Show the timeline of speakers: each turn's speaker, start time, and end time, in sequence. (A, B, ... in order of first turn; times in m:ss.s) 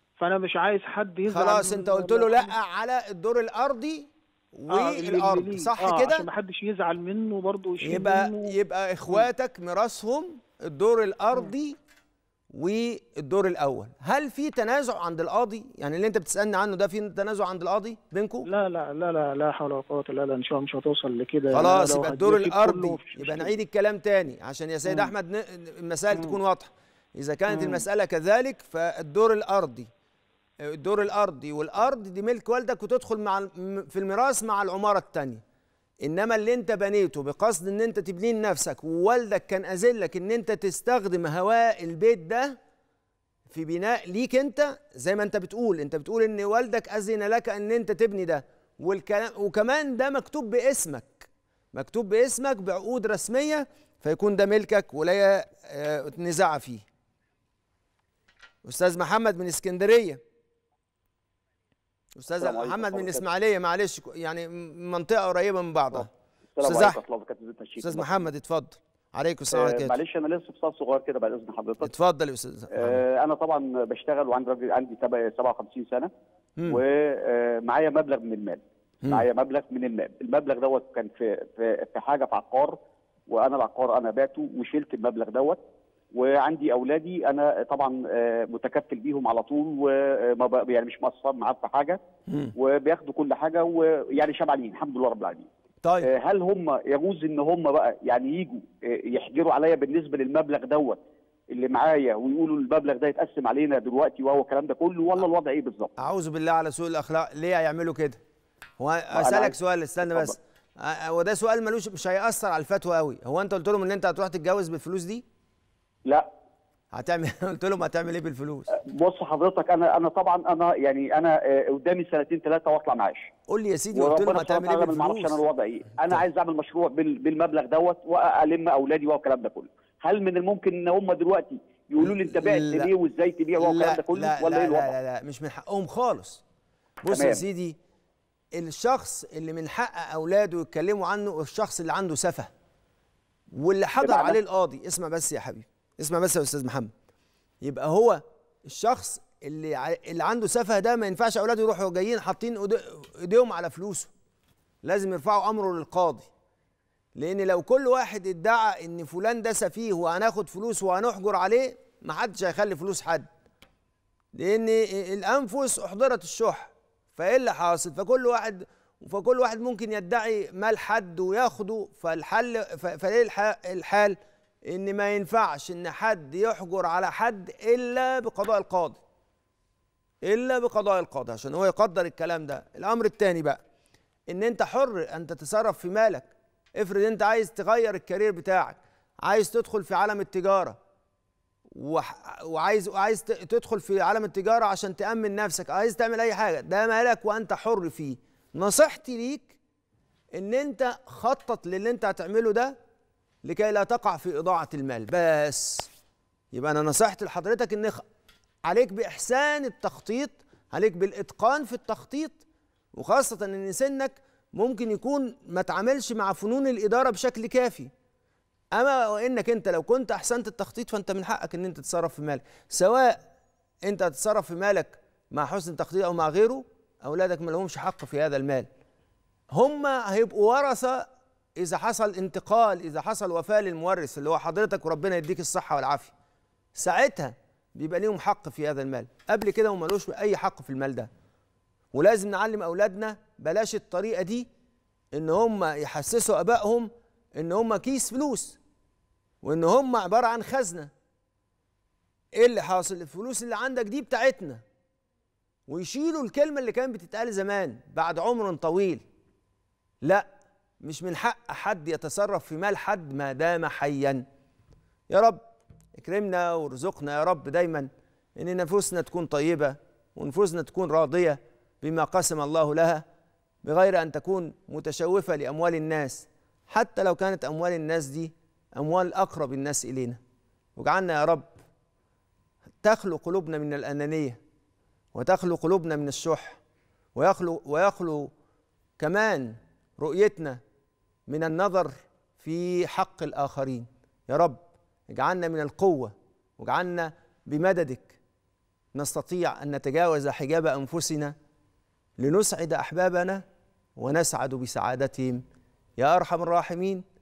0:00.2-0:02.5 A
0:01.3-0:06.3 B
0:04.7-0:08.6 A
0:07.8-0:11.8 B
0:12.5-0:18.5 B
0:18.4-0:23.5 A
0:21.5-0:29.9 B
0:24.9-0:25.1 A
0:26.1-0:26.4 A
0:27.5-0:27.8 A
0:30.6-0:35.4 B
0:36.0-0:42.6 B
0:43.5-0:56.8 B
0:58.6-1:00.2 B
1:02.2-1:06.1 B
1:02.4-1:03.2 C
1:06.6-1:08.2 C
1:06.6-1:07.0 B
1:07.8-1:10.0 B
1:09.5-1:11.9 C
1:11.8-1:13.0 B
1:12.7-1:16.1 C
1:16.7-1:22.8 C
1:23.3-1:25.6 C
1:26.1-1:32.0 C
1:32.3-1:32.5 B
1:32.6-1:35.5 C
1:35.8-1:36.1 B
1:36.0-1:41.0 C
1:41.5-1:45.9 C
1:46.0-1:48.2 B
1:48.8-1:55.2 B
1:49.2-1:50.3 C
1:56.9-1:58.7 B
1:58.7-2:03.3 C
2:03.5-2:05.4 B
2:03.9-2:14.9 C
2:12.0-2:12.9 B
2:13.6-2:16.4 B
2:17.0-2:17.8 B
2:17.1-2:17.4 C
2:18.5-2:22.5 B
2:23.5-2:26.9 B
2:24.0-2:24.4 C
2:27.6-2:34.1 B
2:34.8-2:36.3 B
2:37.2-2:43.3 B
2:44.4-2:59.0 B
3:00.2-3:03.6 B
3:04.3-3:10.8 B
3:11.8-3:19.5 B
3:20.4-3:22.8 B
3:23.4-3:25.9 B
3:26.5-3:28.0 B
3:28.6-3:32.4 B
3:32.9-3:37.9 B
3:38.7-3:43.2 B
3:43.8-3:48.7 B
3:49.5-3:51.1 B
3:51.6-3:56.1 B
3:56.8-4:01.1 B
4:01.9-4:04.5 B
4:05.1-4:08.6 B
4:09.4-4:10.9 B
4:12.4-4:14.6 B
4:15.7-4:19.0 B
4:20.8-4:24.2 B
4:25.1-4:25.4 B
4:26.0-4:33.0 B
4:33.6-4:40.2 B
4:40.8-4:41.5 B
4:42.8-4:44.4 B
4:45.1-4:46.6 B
4:47.2-4:48.3 B
4:49.0-4:50.6 B
4:51.3-4:58.2 B
4:58.9-5:01.4 B
5:02.2-5:03.4 B
5:04.0-5:05.4 B
5:06.0-5:07.0 B